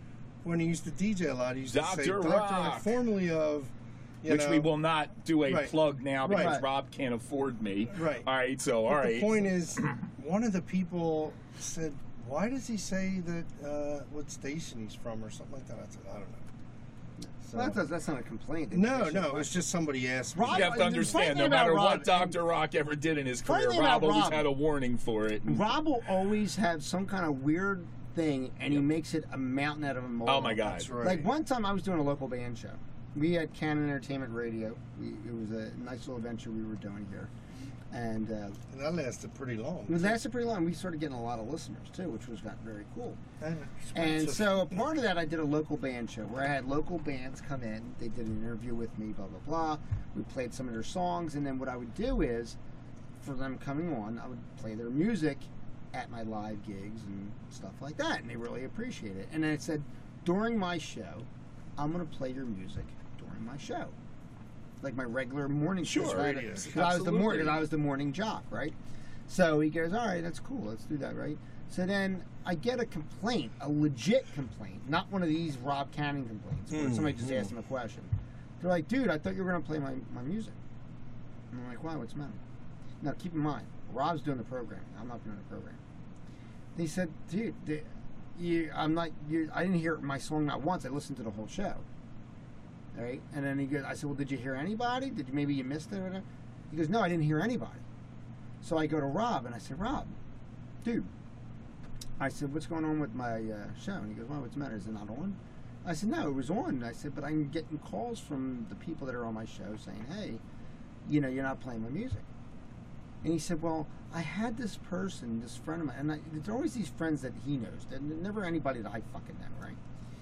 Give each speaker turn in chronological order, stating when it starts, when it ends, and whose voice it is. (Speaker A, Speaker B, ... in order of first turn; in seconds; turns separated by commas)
Speaker A: 0.4-3.7, Speaker B: 1.7-2.9, Speaker A: 4.2-4.7, Speaker B: 4.2-9.9, Speaker A: 5.5-6.6, Speaker C: 6.3-6.7, Speaker A: 7.9-8.3, Speaker A: 8.9-16.4, Speaker C: 17.4-19.6, Speaker A: 17.4-17.8, Speaker A: 18.7-21.2, Speaker C: 20.4-22.4, Speaker B: 20.5-25.7, Speaker C: 23.5-24.5, Speaker C: 25.5-37.3, Speaker B: 30.3-30.9, Speaker A: 30.7-31.3, Speaker C: 37.9-38.6, Speaker A: 38.7-40.2, Speaker C: 39.9-43.2, Speaker A: 43.4-44.8, Speaker C: 43.9-52.6, Speaker C: 53.2-63.9, Speaker C: 64.8-68.8, Speaker B: 65.8-67.6, Speaker A: 66.0-66.9, Speaker C: 69.3-80.6, Speaker A: 76.7-77.5, Speaker C: 81.5-82.4, Speaker C: 83.0-85.8, Speaker C: 86.8-91.8, Speaker C: 92.9-97.8, Speaker C: 98.6-100.2, Speaker C: 100.8-101.1, Speaker C: 102.2-110.4, Speaker C: 111.0-112.2, Speaker C: 113.2-119.8